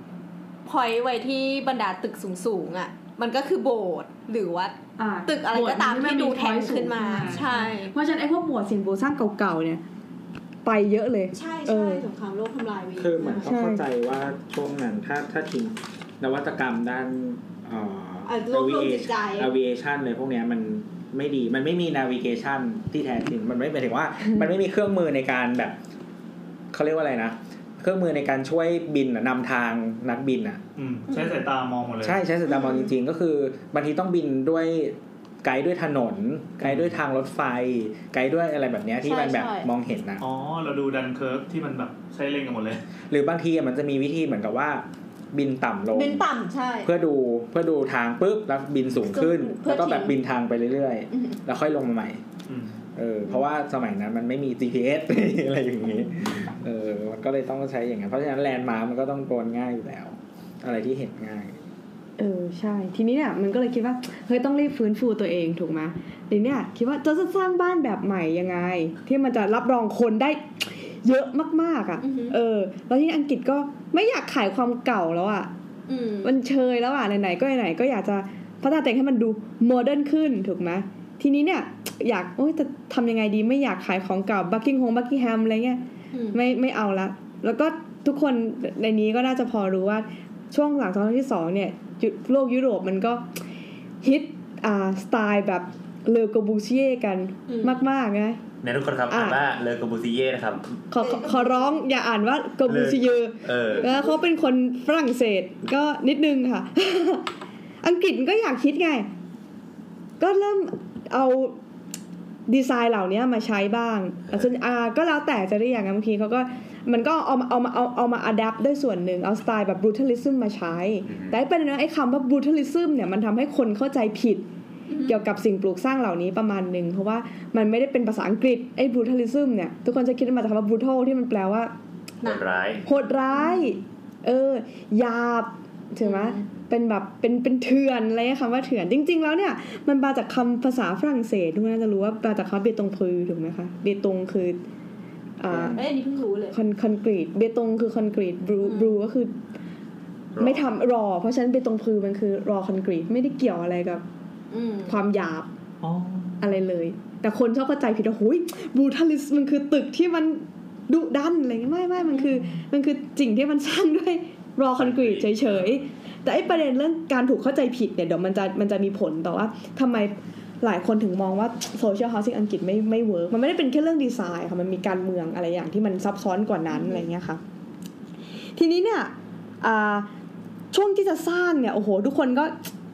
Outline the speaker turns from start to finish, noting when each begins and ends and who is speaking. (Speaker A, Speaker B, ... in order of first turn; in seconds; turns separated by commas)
Speaker A: 0.6-4.7, Speaker B: 5.0-9.8, Speaker A: 5.2-7.9, Speaker B: 10.6-12.1, Speaker A: 11.3-13.5, Speaker C: 13.0-25.8, Speaker B: 13.4-13.8, Speaker A: 18.2-19.5, Speaker C: 26.7-30.6, Speaker D: 30.8-32.2, Speaker A: 31.1-31.4, Speaker C: 32.0-40.2, Speaker A: 32.5-32.8, Speaker D: 36.6-36.9, Speaker A: 39.0-39.7, Speaker D: 40.2-42.8, Speaker C: 43.1-46.2, Speaker A: 45.9-46.9, Speaker C: 46.8-52.2, Speaker A: 49.0-50.1, Speaker D: 52.5-52.7, Speaker C: 52.9-61.6, Speaker B: 62.2-75.5, Speaker A: 72.0-72.3, Speaker A: 75.9-76.3, Speaker B: 76.2-93.3, Speaker A: 86.1-86.4, Speaker B: 94.0-98.4, Speaker A: 97.5-97.8, Speaker E: 98.6-100.8, Speaker B: 99.1-99.4, Speaker B: 100.9-107.3, Speaker A: 101.0-101.8, Speaker E: 102.7-103.9, Speaker A: 103.7-104.2, Speaker B: 107.8-109.1, Speaker B: 110.2-111.6, Speaker B: 112.5-124.5, Speaker E: 121.1-121.3, Speaker A: 124.9-125.2, Speaker B: 125.0-131.7, Speaker E: 132.2-132.8, Speaker B: 132.8-144.6, Speaker A: 136.0-136.4, Speaker B: 145.4-145.9, Speaker C: 145.5-145.7, Speaker A: 145.7-146.6, Speaker B: 146.5-149.4, Speaker A: 148.6-149.0, Speaker E: 150.3-150.6, Speaker B: 150.4-154.0, Speaker A: 154.5-155.0, Speaker B: 154.9-155.5, Speaker D: 155.8-156.4, Speaker B: 156.4-177.4, Speaker A: 162.0-162.3, Speaker E: 164.8-165.7, Speaker A: 176.7-177.0, Speaker B: 178.6-180.1, Speaker B: 180.7-182.7